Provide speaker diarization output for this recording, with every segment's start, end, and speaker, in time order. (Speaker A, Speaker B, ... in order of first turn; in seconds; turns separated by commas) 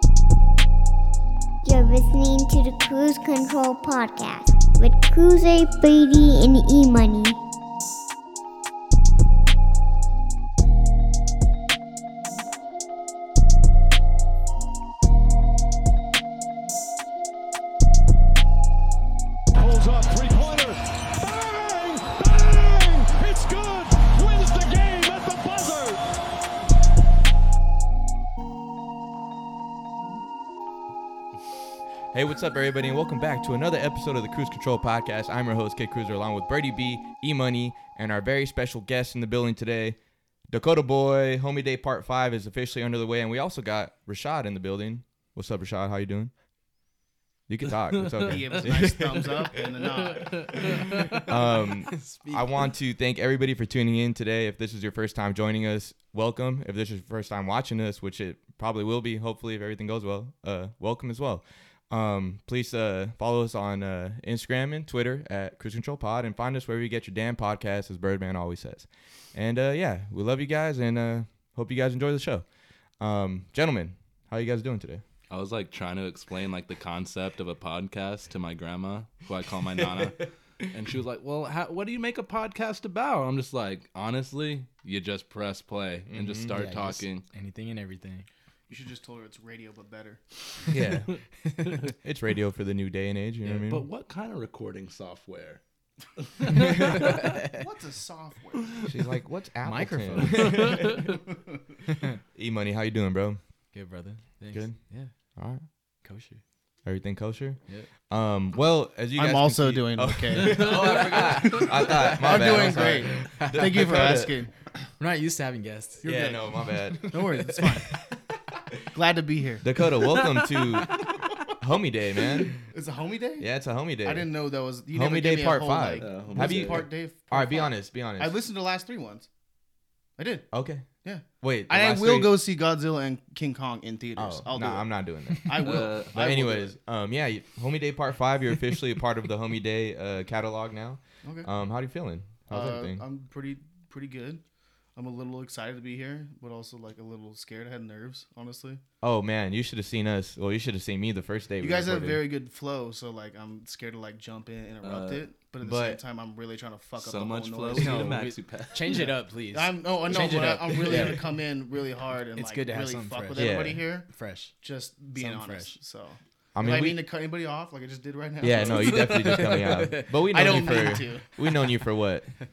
Speaker A: 1.6-7.4, Speaker B: 19.6-26.0, Speaker C: 32.1-40.0, Speaker C: 40.5-46.3, Speaker C: 47.5-49.6, Speaker D: 48.2-50.7, Speaker C: 50.5-72.5, Speaker E: 51.9-52.6, Speaker C: 73.0-75.0, Speaker F: 75.3-87.2, Speaker C: 86.1-86.5, Speaker E: 86.5-88.2, Speaker D: 88.7-90.2, Speaker C: 90.7-91.2, Speaker C: 92.0-93.9, Speaker F: 93.4-95.6, Speaker C: 96.6-97.0, Speaker D: 96.8-98.8, Speaker C: 98.8-101.0, Speaker E: 99.6-100.8, Speaker F: 100.6-101.0, Speaker C: 102.3-103.4, Speaker E: 103.7-105.1, Speaker C: 104.5-104.8, Speaker C: 105.3-105.6, Speaker E: 106.0-106.4, Speaker C: 106.8-114.3, Speaker D: 109.2-114.5, Speaker E: 112.0-113.8, Speaker E: 115.0-116.1, Speaker C: 116.0-117.0, Speaker D: 116.0-116.4, Speaker E: 116.9-117.6, Speaker D: 117.1-118.0, Speaker D: 118.9-119.7, Speaker C: 119.6-122.6, Speaker E: 120.1-121.0, Speaker D: 122.6-123.5, Speaker C: 123.4-124.3, Speaker D: 124.0-129.3, Speaker C: 124.9-128.4, Speaker F: 126.0-126.8, Speaker D: 130.2-130.5, Speaker C: 130.5-130.9, Speaker D: 131.0-134.9, Speaker C: 131.4-132.3, Speaker C: 134.2-143.0, Speaker D: 135.4-136.7, Speaker F: 135.6-136.1, Speaker D: 141.2-141.5, Speaker D: 142.5-144.4, Speaker D: 144.9-148.8, Speaker C: 149.0-152.2, Speaker D: 151.6-158.2, Speaker F: 154.8-155.2, Speaker C: 155.6-156.0, Speaker F: 157.0-159.1, Speaker E: 157.7-161.2, Speaker D: 159.5-169.6, Speaker C: 160.9-161.2, Speaker E: 162.4-163.5, Speaker C: 163.3-163.8, Speaker E: 164.1-164.5, Speaker E: 165.1-165.7, Speaker C: 166.5-167.0, Speaker C: 168.4-172.3, Speaker E: 168.6-170.1, Speaker D: 170.3-171.3